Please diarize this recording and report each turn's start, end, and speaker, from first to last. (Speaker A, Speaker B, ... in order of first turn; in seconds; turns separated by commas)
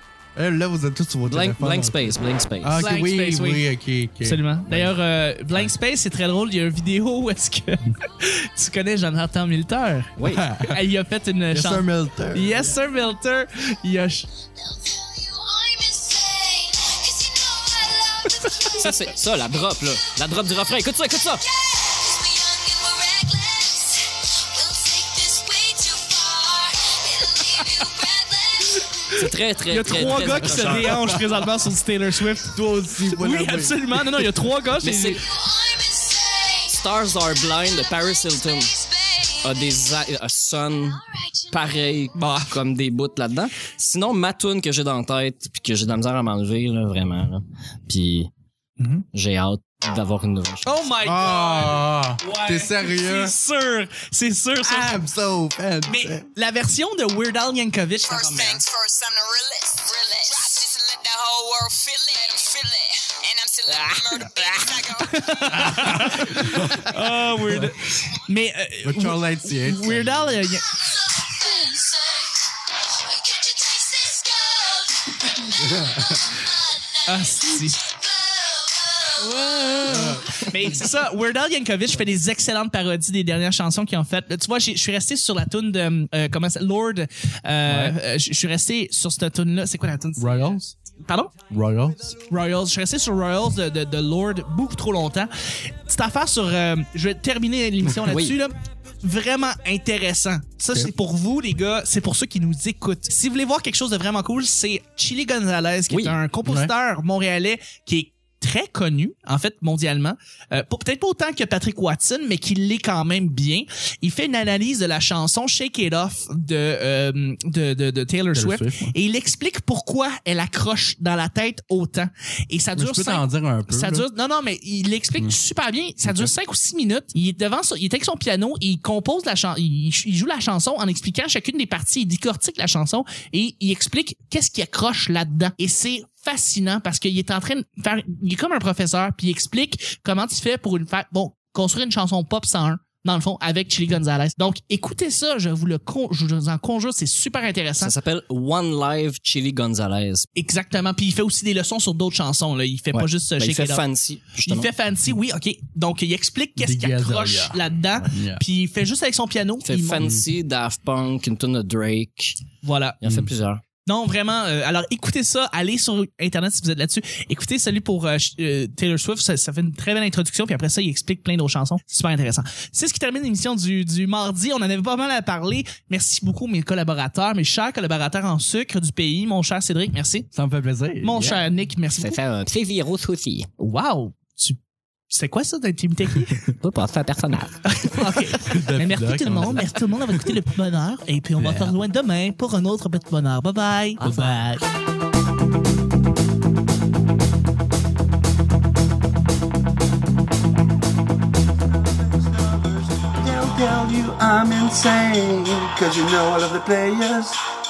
Speaker A: 0.3-4.9, Speaker B: 1.3-2.8, Speaker C: 2.8-3.6, Speaker C: 4.2-14.2, Speaker B: 10.2-10.4, Speaker A: 10.3-10.8, Speaker A: 11.5-12.7, Speaker D: 14.4-20.6, Speaker C: 18.4-18.9, Speaker B: 18.8-21.4, Speaker D: 21.2-29.3, Speaker C: 28.8-29.1, Speaker B: 29.1-31.1, Speaker C: 29.7-35.2, Speaker D: 29.8-30.5, Speaker A: 30.6-31.2, Speaker A: 32.5-34.4, Speaker B: 34.8-35.2, Speaker D: 35.2-40.1, Speaker B: 36.7-38.7, Speaker B: 39.4-48.3, Speaker D: 40.7-42.1, Speaker C: 42.1-42.5, Speaker C: 48.8-49.0, Speaker B: 49.1-50.8, Speaker C: 50.6-55.0, Speaker A: 51.0-53.4, Speaker A: 54.6-56.3, Speaker C: 55.9-58.6, Speaker D: 58.0-65.9, Speaker C: 63.7-70.7, Speaker A: 65.6-67.7, Speaker A: 68.8-70.4, Speaker D: 70.7-79.8, Speaker A: 75.7-76.0, Speaker C: 77.1-77.9, Speaker C: 79.2-91.3, Speaker A: 79.8-80.3, Speaker A: 87.7-88.0, Speaker A: 90.2-90.7, Speaker A: 91.5-92.2, Speaker C: 92.3-95.3, Speaker C: 95.8-147.9, Speaker B: 98.1-98.4, Speaker B: 105.9-106.2, Speaker A: 106.4-106.7, Speaker A: 118.3-118.9, Speaker A: 122.7-124.1, Speaker A: 126.0-126.3, Speaker B: 147.8-150.2, Speaker C: 150.3-153.8, Speaker B: 152.9-154.7, Speaker C: 154.4-160.1, Speaker A: 156.6-158.4, Speaker B: 159.6-162.4, Speaker A: 160.0-160.2, Speaker C: 162.6-163.0, Speaker B: 163.0-163.6, Speaker A: 163.0-163.3, Speaker C: 163.8-180.3, Speaker A: 180.3-181.2, Speaker C: 181.0-182.2, Speaker B: 181.2-183.5, Speaker C: 183.6-184.6, Speaker C: 185.1-186.4, Speaker B: 186.6-188.2, Speaker C: 187.7-194.3, Speaker A: 188.4-190.3, Speaker B: 191.4-191.7, Speaker B: 194.0-194.6, Speaker E: 201.7-207.4